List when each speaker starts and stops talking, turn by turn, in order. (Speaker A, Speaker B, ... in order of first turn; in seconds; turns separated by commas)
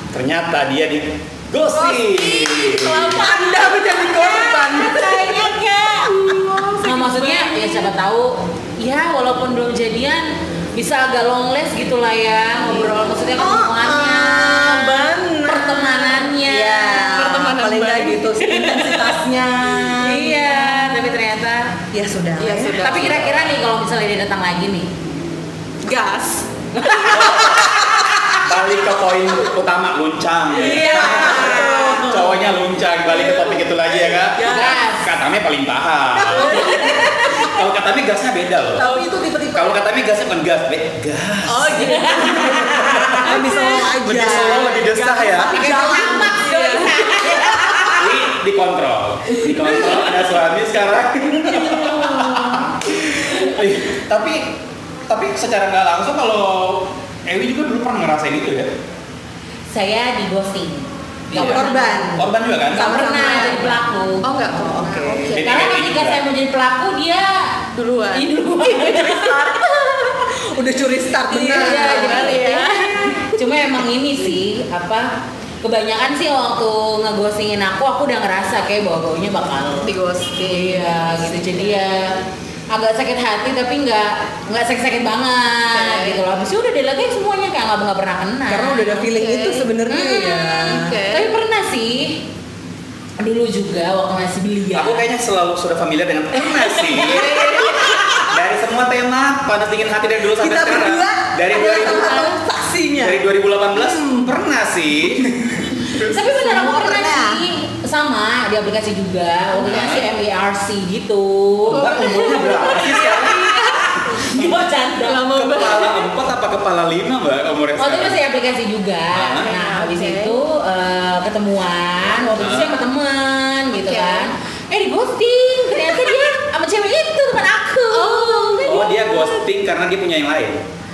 Speaker A: 0.1-3.2, Speaker B: 1.7-4.8, Speaker C: 3.0-5.5, Speaker D: 4.0-17.2, Speaker B: 6.1-7.9, Speaker C: 13.3-20.9, Speaker B: 16.9-18.6, Speaker D: 18.7-19.1, Speaker D: 20.0-21.7, Speaker C: 21.9-22.9, Speaker B: 22.4-23.2, Speaker D: 22.8-24.9, Speaker A: 22.9-23.4, Speaker B: 25.8-27.6, Speaker A: 27.1-38.8, Speaker D: 30.6-32.0, Speaker B: 30.6-32.5, Speaker C: 30.8-32.3, Speaker B: 33.1-34.8, Speaker D: 34.4-35.1, Speaker C: 36.1-37.1, Speaker B: 36.3-36.9, Speaker D: 36.5-37.5, Speaker C: 38.7-39.8, Speaker B: 38.8-39.1, Speaker A: 39.5-41.9, Speaker B: 41.5-47.5, Speaker D: 41.8-43.5, Speaker C: 42.1-46.4, Speaker A: 42.5-45.6, Speaker D: 45.5-48.1, Speaker A: 47.9-54.5, Speaker B: 51.5-52.6, Speaker A: 55.1-58.7, Speaker D: 59.7-62.1, Speaker A: 61.3-63.0, Speaker C: 61.3-63.8, Speaker D: 62.7-64.3, Speaker B: 63.0-63.7, Speaker B: 64.2-65.8, Speaker C: 64.5-65.4, Speaker A: 65.3-66.2, Speaker D: 65.4-67.6, Speaker B: 67.7-70.2, Speaker D: 68.1-69.6, Speaker C: 70.4-72.4, Speaker D: 71.3-79.9, Speaker B: 71.3-73.2, Speaker B: 79.8-81.8, Speaker D: 80.5-89.1, Speaker B: 85.7-86.2, Speaker C: 88.5-90.9, Speaker B: 89.0-91.3, Speaker D: 89.9-92.2, Speaker D: 93.2-95.0, Speaker A: 94.7-102.2, Speaker D: 96.8-98.2, Speaker C: 97.2-98.1, Speaker C: 100.3-104.3, Speaker D: 101.6-102.3, Speaker A: 103.0-106.1, Speaker D: 106.0-111.9, Speaker C: 106.2-107.4, Speaker A: 109.6-110.0, Speaker A: 111.6-113.5, Speaker B: 111.7-114.2, Speaker D: 113.1-115.3, Speaker B: 115.0-116.1, Speaker A: 115.3-118.2, Speaker D: 117.8-128.9, Speaker A: 119.1-119.5, Speaker B: 119.4-120.4, Speaker A: 122.4-122.8, Speaker B: 123.8-124.3, Speaker B: 127.9-129.4, Speaker A: 128.6-130.6